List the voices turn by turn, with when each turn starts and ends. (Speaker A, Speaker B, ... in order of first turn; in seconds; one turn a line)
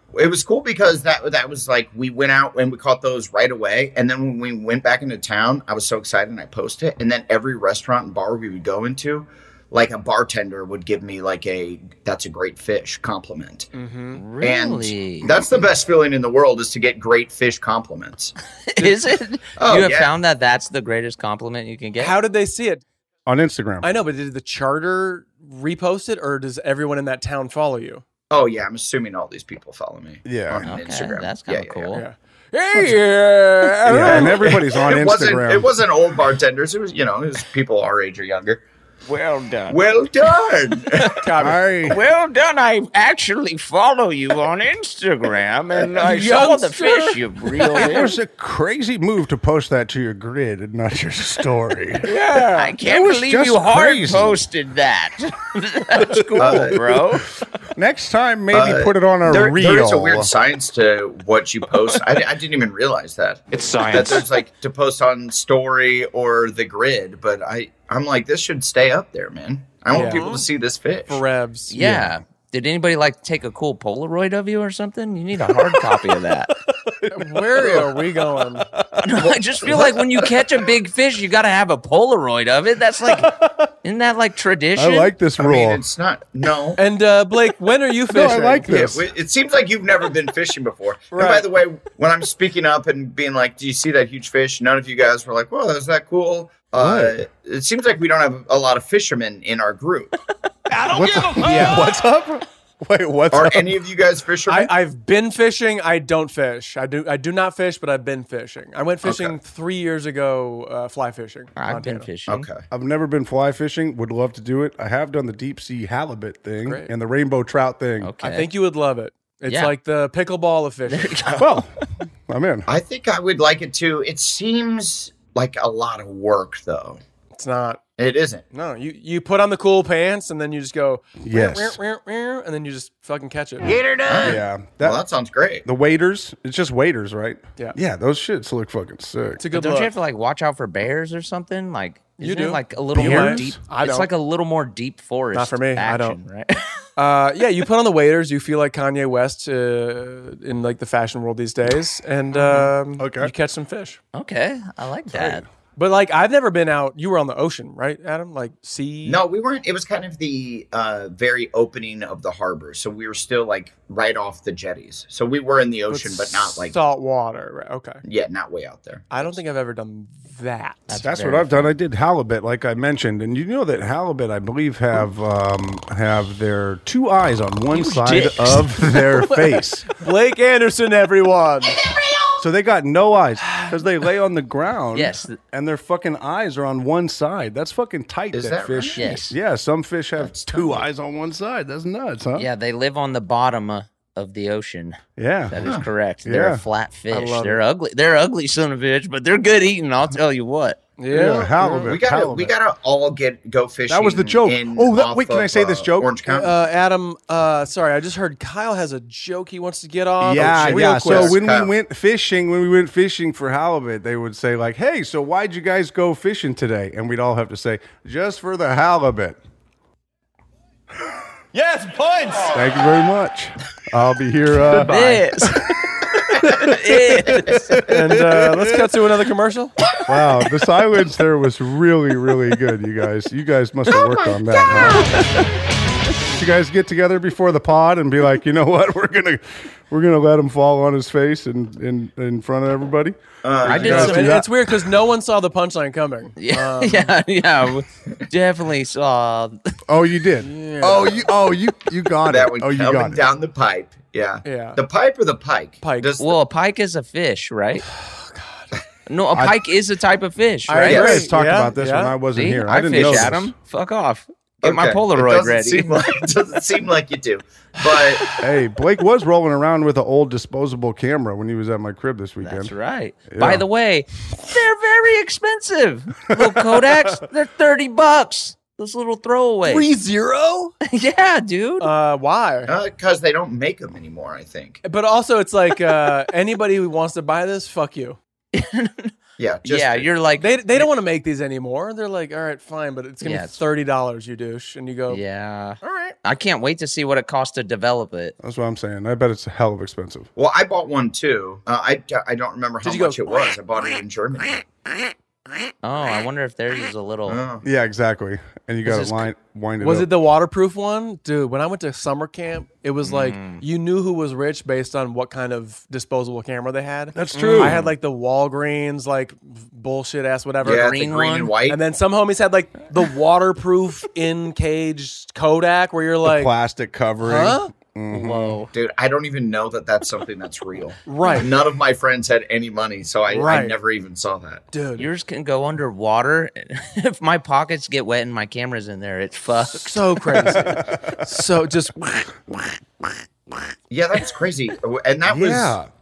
Speaker A: 0.1-13.7
Speaker B: 13.7-14.2
Speaker C: 14.1-15.3
Speaker A: 14.4-18.3
Speaker C: 18.7-22.1
Speaker A: 19.6-20.1
Speaker B: 22.0-22.8
Speaker D: 23.3-23.9
Speaker B: 23.8-28.0
Speaker A: 28.3-32.0
Speaker D: 30.2-30.7
Speaker C: 30.6-32.0
Speaker B: 31.9-34.7
Speaker D: 33.8-35.7
Speaker A: 33.9-38.6
Speaker C: 39.1-39.8
Speaker A: 39.7-41.2
Speaker B: 41.2-41.8
Speaker D: 41.4-42.0
Speaker C: 41.8-48.1
Speaker B: 45.8-48.1
Speaker D: 47.7-52.2
Speaker C: 52.1-57.2
Speaker D: 52.7-54.4
Speaker D: 56.0-56.8
Speaker A: 56.4-56.8
Speaker D: 57.7-60.3
Speaker A: 58.5-71.2
Speaker E: 63.5-64.3
Speaker B: 69.9-70.5
Speaker B: 71.1-71.8
Speaker C: 71.7-76.5
Speaker D: 71.8-72.1
Speaker D: 76.8-79.1
Speaker B: 77.1-78.7
Speaker C: 79.0-85.1
Speaker A: 79.2-80.3
Speaker D: 83.1-83.7
Speaker D: 84.8-85.8
Speaker A: 85.4-86.8
Speaker B: 86.8-89.0
Speaker D: 88.1-89.0
Speaker A: 88.8-100.1
Speaker B: 91.1-91.5
Speaker D: 96.8-97.1
Speaker E: 100.7-101.8
Speaker D: 100.9-103.8
Speaker B: 101.4-101.8
Speaker A: 103.3-104.7
Speaker B: 104.5-112.1
Speaker A: 109.0-109.3
Speaker C: 111.6-112.5
Speaker A: 112.3-112.6
Speaker D: 112.7-118.1
Speaker B: 116.6-116.9
Speaker C: 118.0-118.5
Speaker B: 118.2-121.2
Speaker C: 119.5-119.7
Speaker C: 120.9-121.6
Speaker D: 121.4-121.7
Speaker D: 122.3-122.7
Speaker A: 122.7-127.0
Speaker B: 127.3-127.8
Speaker A: 128.0-128.4
Speaker B: 128.5-133.7
Speaker D: 131.2-131.8
Speaker E: 133.7-134.3
Speaker A: 134.1-135.7
Speaker D: 134.2-135.0
Speaker D: 135.6-139.4
Speaker B: 139.4-139.9
Speaker C: 139.5-146.8
Speaker B: 142.2-144.1
Speaker D: 142.9-143.6
Speaker B: 145.3-146.2
Speaker B: 147.0-154.0
Speaker C: 152.3-152.7
Speaker D: 153.0-153.3
Speaker C: 154.1-155.4
Speaker D: 155.1-155.4
Speaker B: 155.8-159.2
Speaker A: 159.0-166.8
Speaker B: 165.9-168.0
Speaker A: 168.0-169.3
Speaker B: 169.1-171.0
Speaker C: 170.9-171.7
Speaker D: 171.0-179.9
Speaker C: 177.7-178.8
Speaker B: 179.3-181.9
Speaker D: 182.4-192.5
Speaker B: 183.4-183.7
Speaker C: 184.9-185.4
Speaker A: 188.3-189.2
Speaker C: 188.9-189.3
Speaker A: 190.2-190.8
Speaker C: 192.3-200.8
Speaker D: 195.2-196.6
Speaker B: 197.1-197.6
Speaker B: 201.0-201.9
Speaker D: 201.1-202.5
Speaker A: 201.7-206.6
Speaker D: 203.9-206.1
Speaker B: 206.3-211.4
Speaker D: 210.2-219.4
Speaker A: 210.3-211.7
Speaker E: 221.5-222.7
Speaker D: 222.5-224.9
Speaker B: 224.6-225.7
Speaker C: 224.8-225.8
Speaker C: 226.3-227.9
Speaker B: 226.4-226.7
Speaker D: 227.5-228.9
Speaker B: 227.8-229.7
Speaker D: 230.1-235.2
Speaker D: 236.3-244.5
Speaker A: 243.4-244.3
Speaker C: 243.6-244.4
Speaker B: 243.8-247.1
Speaker C: 246.4-249.6
Speaker D: 249.9-253.2
Speaker B: 250.4-251.2
Speaker A: 252.3-256.4
Speaker B: 254.4-254.8
Speaker B: 255.8-256.1
Speaker C: 256.2-257.9
Speaker B: 257.9-258.7
Speaker C: 259.1-261.0
Speaker B: 260.7-262.2
Speaker A: 260.9-261.2
Speaker D: 260.9-263.5
Speaker C: 262.3-265.9
Speaker A: 262.9-263.3
Speaker A: 264.6-268.3
Speaker D: 268.4-272.7
Speaker C: 272.4-279.9
Speaker D: 273.3-273.6
Speaker D: 276.3-277.2
Speaker B: 279.6-280.7
Speaker C: 280.8-281.9
Speaker B: 281.8-282.7
Speaker A: 282.7-284.8
Speaker B: 284.8-288.2
Speaker C: 288.5-289.1
Speaker A: 289.4-290.1
Speaker C: 289.6-290.9
Speaker B: 290.4-295.2
Speaker C: 293.2-293.6
Speaker C: 295.1-298.3
Speaker B: 295.8-296.1
Speaker D: 298.4-300.3
Speaker A: 300.4-304.6
Speaker B: 302.8-303.5
Speaker C: 305.8-307.4
Speaker A: 307.3-307.6
Speaker D: 307.6-310.1
Speaker C: 308.8-309.3
Speaker B: 309.8-321.0
Speaker C: 313.0-313.6
Speaker D: 317.1-317.9
Speaker C: 317.3-317.9
Speaker A: 320.6-321.8
Speaker C: 320.6-321.6
Speaker B: 321.6-326.5
Speaker D: 326.2-328.6
Speaker B: 327.2-327.7
Speaker C: 328.1-328.7
Speaker A: 328.7-334.6
Speaker B: 331.1-331.5
Speaker B: 333.3-333.8
Speaker B: 334.7-335.1
Speaker C: 334.9-340.0
Speaker B: 339.7-342.3
Speaker D: 340.5-341.3
Speaker A: 343.9-345.8
Speaker D: 345.2-345.9